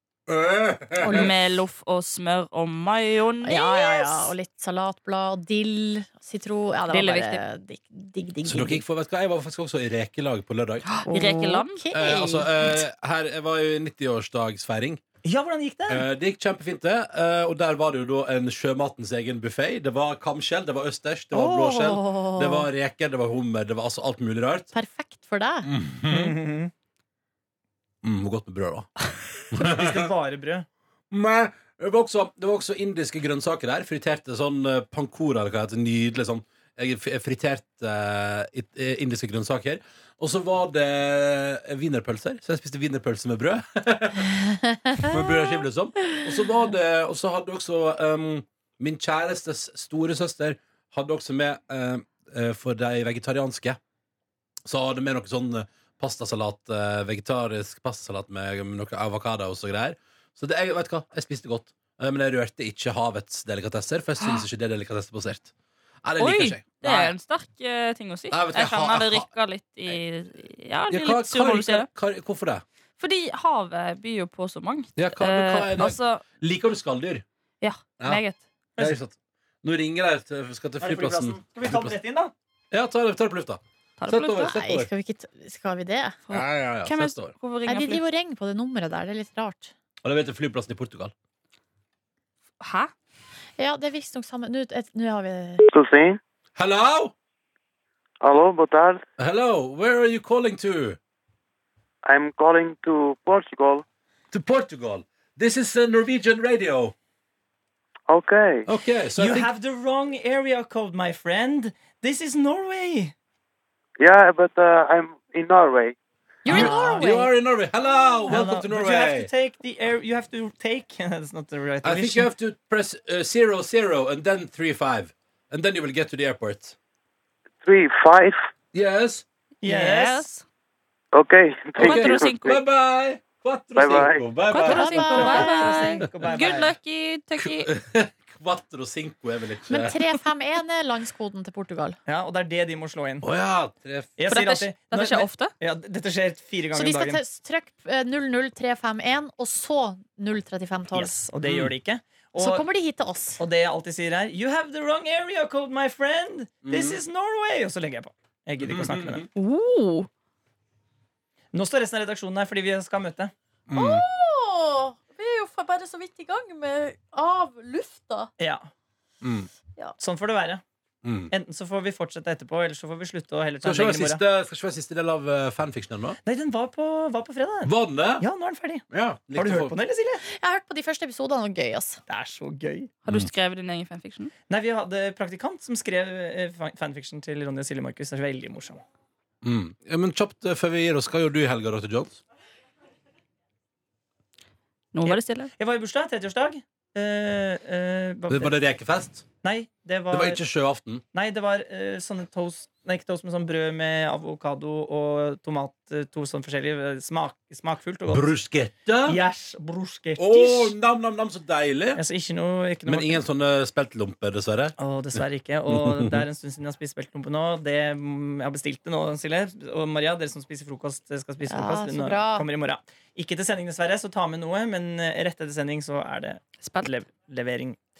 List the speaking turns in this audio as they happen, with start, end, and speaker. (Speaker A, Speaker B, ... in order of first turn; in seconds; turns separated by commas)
Speaker A: 0.3-1.3, Speaker B: 1.0-1.4, Speaker C: 1.1-4.3, Speaker B: 3.4-8.8, Speaker C: 6.9-7.4, Speaker A: 8.4-10.8, Speaker B: 11.1-12.8, Speaker C: 11.1-11.8, Speaker A: 11.9-15.0, Speaker D: 15.2-16.0, Speaker A: 15.9-24.7, Speaker B: 21.3-22.7, Speaker B: 24.7-25.7, Speaker A: 25.6-26.3, Speaker D: 26.1-26.7, Speaker A: 28.0-28.9, Speaker A: 29.5-30.0, Speaker D: 29.5-30.7, Speaker A: 31.1-44.3, Speaker A: 45.0-53.8, Speaker A: 54.6-65.5, Speaker A: 66.0-67.1, Speaker C: 66.2-71.9, Speaker A: 68.3-69.3, Speaker A: 70.9-72.6, Speaker C: 73.0-76.2, Speaker A: 75.0-77.2, Speaker C: 77.6-78.4, Speaker A: 78.8-81.9, Speaker D: 80.8-82.3, Speaker A: 82.7-84.9, Speaker C: 84.0-84.5, Speaker B: 84.4-86.2, Speaker C: 86.3-88.0, Speaker A: 86.3-87.3, Speaker B: 87.7-89.7, Speaker A: 90.0-91.1, Speaker C: 92.6-92.9, Speaker B: 93.6-95.6, Speaker E: 95.7-96.2, Speaker A: 96.5-97.1, Speaker E: 98.2-99.0, Speaker A: 99.2-101.0, Speaker E: 102.0-103.8, Speaker A: 104.3-106.9, Speaker E: 108.1-108.7, Speaker A: 108.7-109.5, Speaker D: 109.2-113.1, Speaker E: 114.0-116.0, Speaker B: 116.4-117.3, Speaker A: 116.5-119.3, Speaker D: 116.5-116.9, Speaker D: 118.3-122.3, Speaker A: 121.8-126.7, Speaker E: 127.6-128.4, Speaker A: 128.7-129.2, Speaker D: 129.6-130.2, Speaker C: 129.6-130.4, Speaker E: 131.1-132.6, Speaker A: 131.8-135.2, Speaker C: 131.8-132.5, Speaker E: 133.8-134.2, Speaker C: 134.5-137.7, Speaker B: 134.6-135.7, Speaker D: 134.7-136.8, Speaker A: 137.6-140.0, Speaker B: 139.7-142.0, Speaker D: 142.1-143.2, Speaker A: 143.2-144.1, Speaker D: 144.2-147.2, Speaker C: 144.3-145.5, Speaker B: 146.7-151.1, Speaker D: 150.9-152.6, Speaker A: 151.4-151.7, Speaker B: 152.4-153.4, Speaker D: 153.4-159.3, Speaker A: 156.6-157.0, Speaker A: 158.6-159.3, Speaker C: 159.4-160.1, Speaker D: 161.5-163.3, Speaker A: 163.7-164.0, Speaker B: 163.7-168.3, Speaker D: 168.4-168.7, Speaker A: 169.2-169.5, Speaker D: 170.0-170.6, Speaker A: 171.0-171.3, Speaker D: 171.3-174.2, Speaker A: 173.6-176.2, Speaker D: 176.2-180.2, Speaker A: 177.6-178.2, Speaker A: 178.9-179.8, Speaker B: 180.3-182.0, Speaker D: 182.1-182.9, Speaker C: 183.0-184.3, Speaker D: 184.5-188.8, Speaker A: 189.4-192.2, Speaker C: 194.9-195.5, Speaker D: 195.0-198.5, Speaker A: 198.3-199.2, Speaker D: 199.4-200.4, Speaker A: 200.1-201.0, Speaker D: 201.1-208.3, Speaker A: 208.1-209.2, Speaker D: 209.1-210.8, Speaker A: 210.2-212.0, Speaker D: 211.9-213.2, Speaker A: 212.8-214.7, Speaker D: 214.8-227.8, Speaker A: 215.7-216.2, Speaker B: 221.5-222.5, Speaker C: 226.6-226.9